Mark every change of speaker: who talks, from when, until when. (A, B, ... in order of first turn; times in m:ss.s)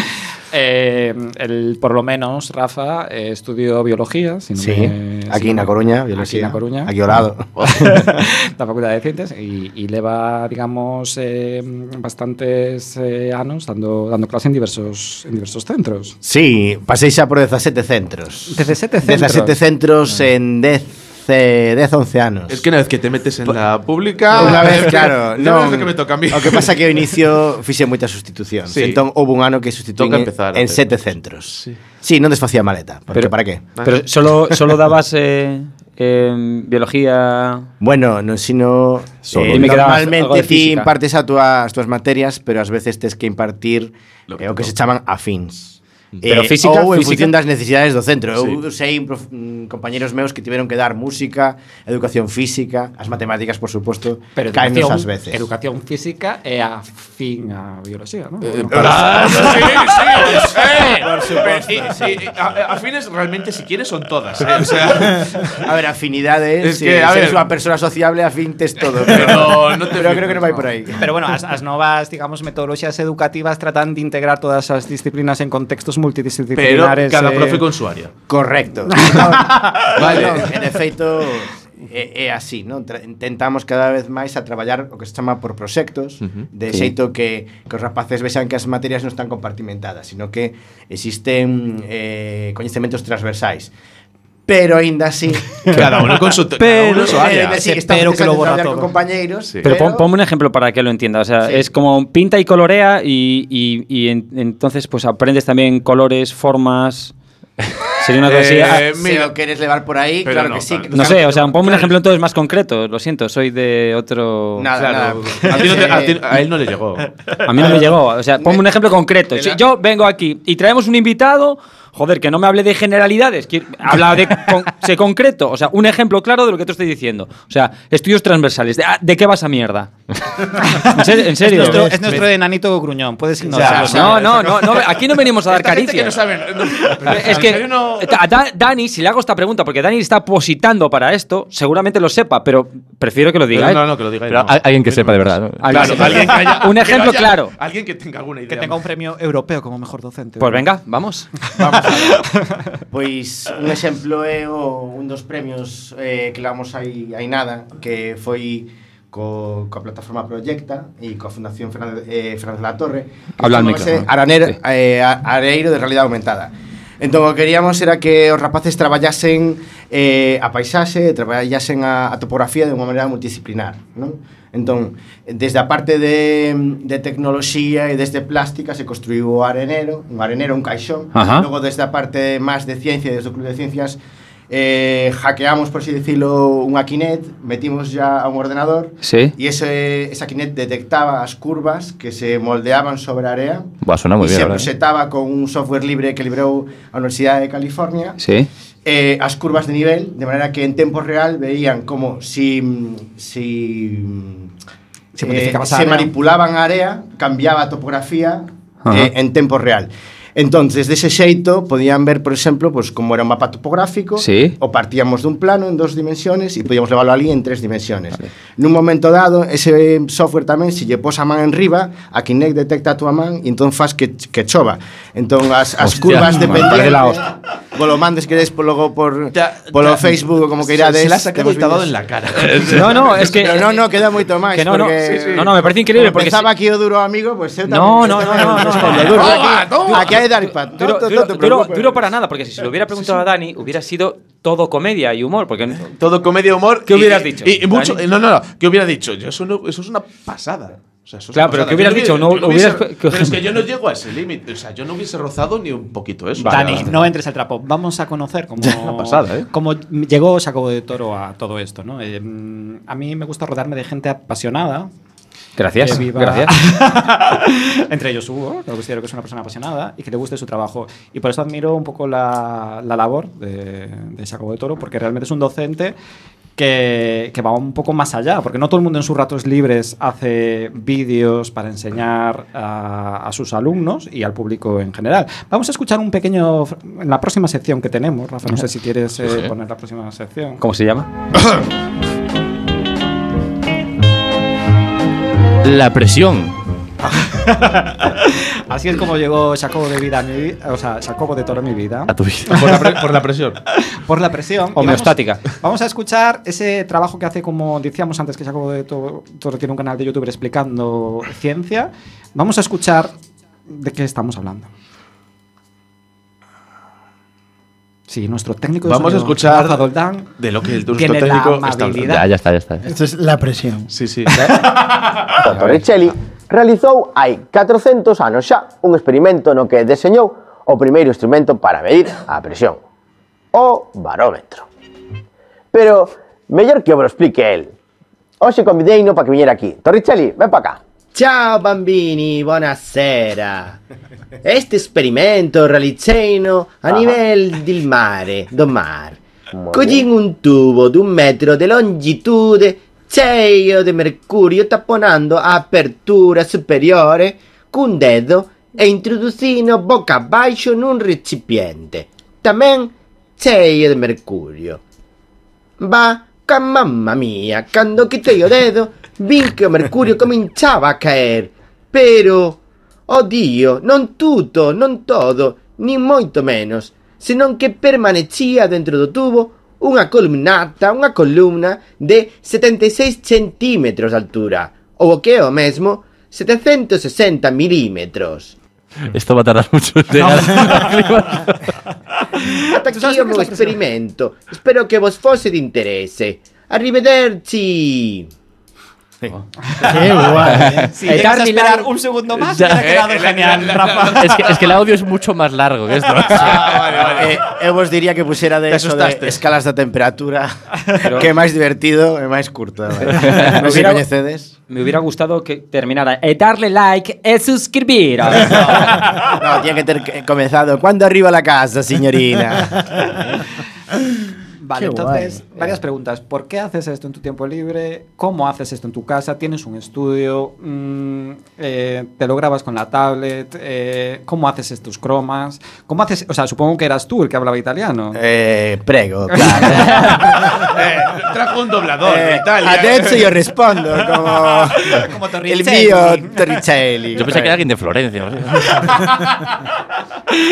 0:00.5-0:06.9 A
0:04.6-0:07.6 B
0:07.7-0:16.2 A
0:16.2-0:22.6 B
0:18.5-0:19.6 A
0:22.5-0:26.7 C
0:24.3-0:33.8 B
0:28.7-0:29.0 C
0:30.0-0:30.8 C
0:33.1-0:37.7 D
0:37.8-0:55.4 B
0:39.4-0:39.7 E
0:39.5-0:40.9 D
0:44.3-0:44.6 C
0:46.3-0:47.3 D
0:54.4-0:59.9 A
0:58.7-1:05.6 C
0:58.7-0:59.4 B
1:00.0-1:02.3 B
1:05.6-1:11.0 B
1:06.6-1:07.4 C
1:09.0-1:10.5 C
1:11.0-1:17.6 A
1:16.6-1:18.1 C
1:18.3-1:33.7 B
1:19.9-1:20.5 C
1:34.5-1:35.9 B
1:35.7-1:37.6 C
1:36.6-1:38.9 A
1:36.9-1:40.1 B
1:39.6-1:47.1 D
1:48.0-1:48.9 D
1:48.2-1:49.3 C
1:48.9-1:51.5 B
1:50.2-1:51.9 C
1:50.9-1:54.7 D
1:54.6-1:56.3 B
1:54.8-1:57.8 C
1:57.4-2:09.9 D
1:58.4-1:58.6 B
2:10.5-2:12.1 D
2:10.6-2:14.2 A
2:12.0-2:12.3 C
2:13.5-2:18.2 C
2:13.5-2:14.3 B
2:13.7-2:16.2 D
2:17.0-2:23.8 D
2:23.5-2:28.8 C
2:24.3-2:26.2 E
2:25.6-2:27.6 D
2:28.5-2:30.6 A
2:30.4-2:31.5 D
2:31.6-2:32.2 B
2:32.0-2:32.6 A
2:32.9-3:04.0 B
2:43.4-2:44.1 D
3:01.1-3:01.5 D
3:04.5-3:18.2 B
3:09.0-3:09.3 D
3:13.8-3:14.7 E
3:18.2-3:18.5 D
3:18.8-3:24.5 B
3:25.2-3:26.1 A
3:25.2-3:51.9 B
3:28.9-3:29.1 D
3:34.2-3:34.6 D
3:45.8-3:47.2 D
3:46.0-3:46.5 E
3:49.4-3:53.2 C
3:52.7-3:53.8 D
3:53.1-4:02.1 B
3:54.5-3:56.5 D
3:55.0-3:55.5 C
3:57.7-4:06.0 D
3:58.7-4:00.2 C
4:05.9-4:17.0 C
4:06.9-4:08.0 D
4:11.3-4:13.6 D
4:16.4-4:24.9 A
4:18.6-4:19.5 C
4:25.6-4:26.5 D
4:25.8-4:36.0 A
4:36.6-4:50.6 A
4:49.2-4:49.5 E
4:50.6-4:51.1 D
4:55.6-4:56.6 E
4:57.1-5:02.8 A
5:02.1-5:02.6 E
5:02.5-5:03.6 C
5:03.9-5:13.1 A
5:04.8-5:05.4 D
5:13.7-5:14.7 A
5:18.1-5:20.3 A
5:18.8-5:19.9 C
5:20.4-5:22.1 C
5:21.0-5:22.2 A
5:22.0-5:22.8 E
5:22.8-5:24.8 F
5:23.9-5:24.6 C
5:25.4-5:32.8 G
5:25.4-5:25.8 C
5:33.5-5:34.7 G
5:35.7-5:37.7 G
5:38.4-5:43.8 G
5:44.4-6:04.8 G
6:05.8-6:28.6 G
6:29.1-6:31.8 E
6:32.4-6:33.8 A
6:32.6-6:38.3 G
6:39.8-6:40.9 F
6:40.4-6:40.9 E
6:40.9-6:44.6 A
6:41.0-6:41.9 D
6:42.5-6:42.8 E
6:42.8-6:44.4 C
6:44.2-6:47.0 E
6:46.3-6:47.4 C
6:47.0-6:54.5 B
6:48.7-6:49.4 C
6:51.0-6:51.3 D
6:53.2-6:54.0 D
6:53.2-6:53.6 E
6:54.7-6:59.1 D
6:59.2-7:02.9 B
7:04.6-7:18.2 A
7:04.8-7:05.4 F
7:18.1-7:20.3 B
7:20.4-7:23.3 C
7:22.0-7:27.6 B
7:24.8-7:26.5 A
7:27.2-7:29.1 E